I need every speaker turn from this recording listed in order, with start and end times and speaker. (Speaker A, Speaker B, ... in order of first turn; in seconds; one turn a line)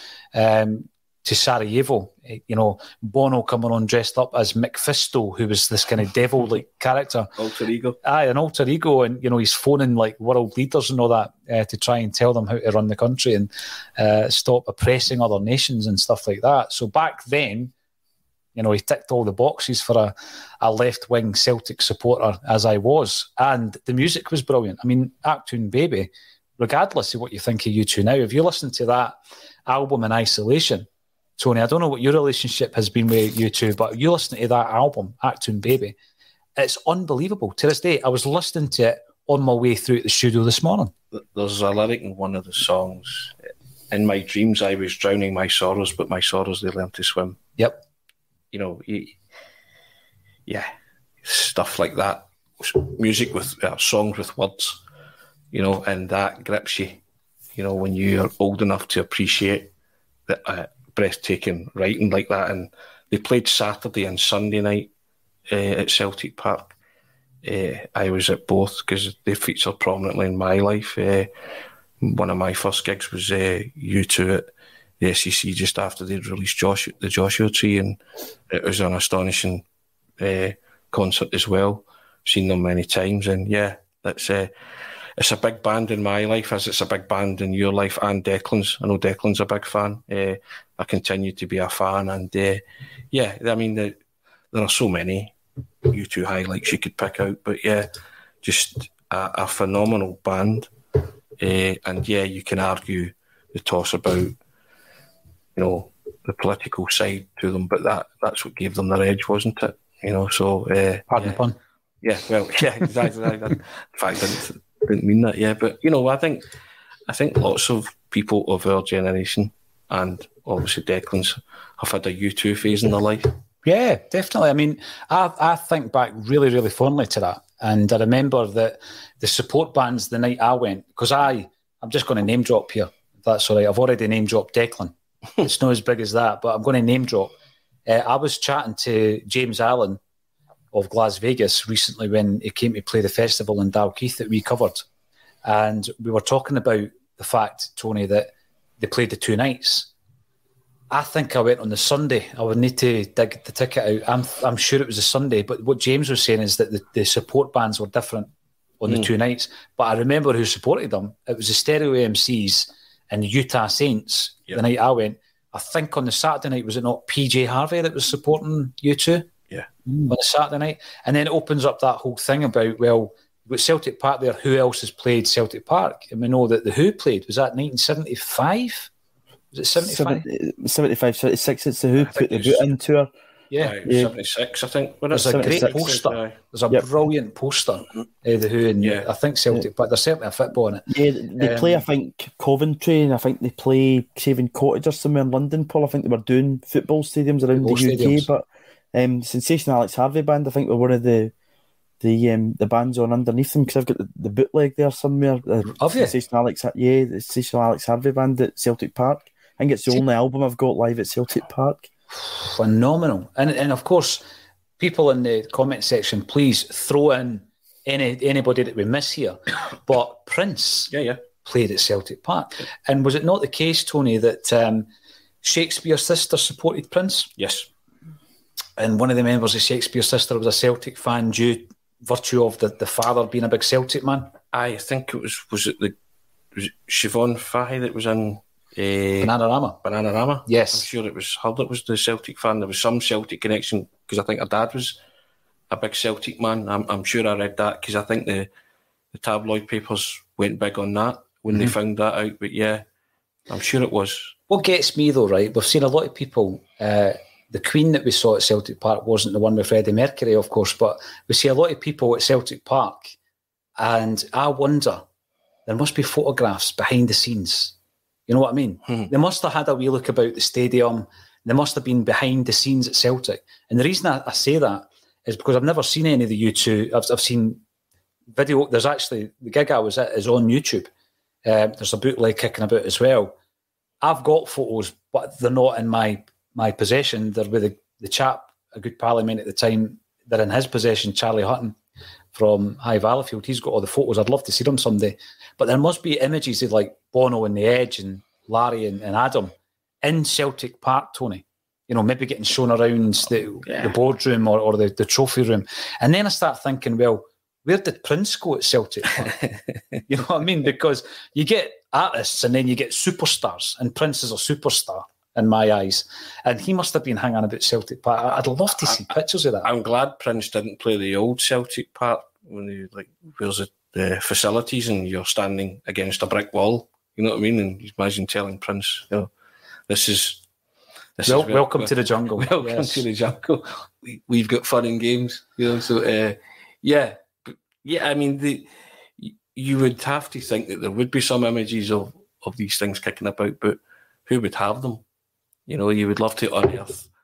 Speaker A: 0.3-7.3
Speaker B: 7.4-8.0
Speaker A: 8.0-17.7
Speaker A: 18.6-30.9
Speaker A: 31.4-36.0
Speaker A: 36.6-40.9
Speaker B: 41.1-43.4
Speaker B: 43.9-47.4
Speaker B: 48.5-49.2
Speaker B: 51.2-54.8
Speaker B: 55.5-57.0
Speaker B: 57.6-59.7
Speaker B: 60.3-64.9
Speaker B: 65.5-66.8
Speaker B: 67.4-71.3
Speaker B: 72.0-74.5
Speaker B: 75.0-79.6
Speaker B: 80.2-84.5
Speaker B: 85.2-94.0
Speaker B: 94.5-95.3
Speaker B: 95.9-97.9
Speaker B: 98.4-100.7
Speaker B: 101.4-104.3
Speaker B: 105.6-111.4
Speaker A: 111.1-111.6
Speaker B: 112.0-116.5
Speaker B: 117.1-123.3
Speaker A: 123.7-137.3
Speaker A: 137.9-140.0
Speaker A: 140.7-144.8
Speaker A: 145.4-149.9
Speaker A: 150.9-158.3
Speaker A: 158.8-169.3
Speaker A: 169.9-178.9
Speaker A: 179.5-180.2
Speaker C: 179.8-183.1
Speaker B: 182.0-182.7
Speaker B: 183.6-186.4
Speaker C: 183.8-184.1
Speaker A: 185.1-191.8
Speaker C: 185.2-185.8
Speaker B: 188.8-189.1
Speaker C: 190.9-201.3
Speaker A: 197.6-198.3
Speaker C: 202.0-211.9
Speaker A: 205.7-206.1
Speaker A: 212.2-214.2
Speaker A: 214.8-220.9
Speaker B: 220.9-221.2
Speaker A: 221.4-224.9
Speaker A: 225.4-227.3
Speaker B: 227.4-227.7
Speaker A: 228.8-234.3
Speaker B: 234.5-235.9
Speaker B: 236.5-245.0
Speaker A: 239.2-239.8
Speaker A: 240.5-240.9
Speaker B: 245.7-248.5
Speaker B: 249.1-252.8
Speaker B: 253.5-254.3
Speaker A: 254.5-263.2
Speaker A: 263.8-265.0
Speaker A: 265.7-267.8
Speaker A: 268.3-277.6
Speaker A: 278.3-280.9
Speaker A: 281.4-283.4
Speaker A: 284.0-291.8
Speaker A: 292.3-299.5
Speaker A: 300.0-309.3
Speaker A: 310.1-319.7
Speaker B: 319.6-329.3
Speaker B: 329.9-330.4
Speaker B: 331.2-345.0
Speaker A: 331.3-333.1
Speaker B: 345.7-347.1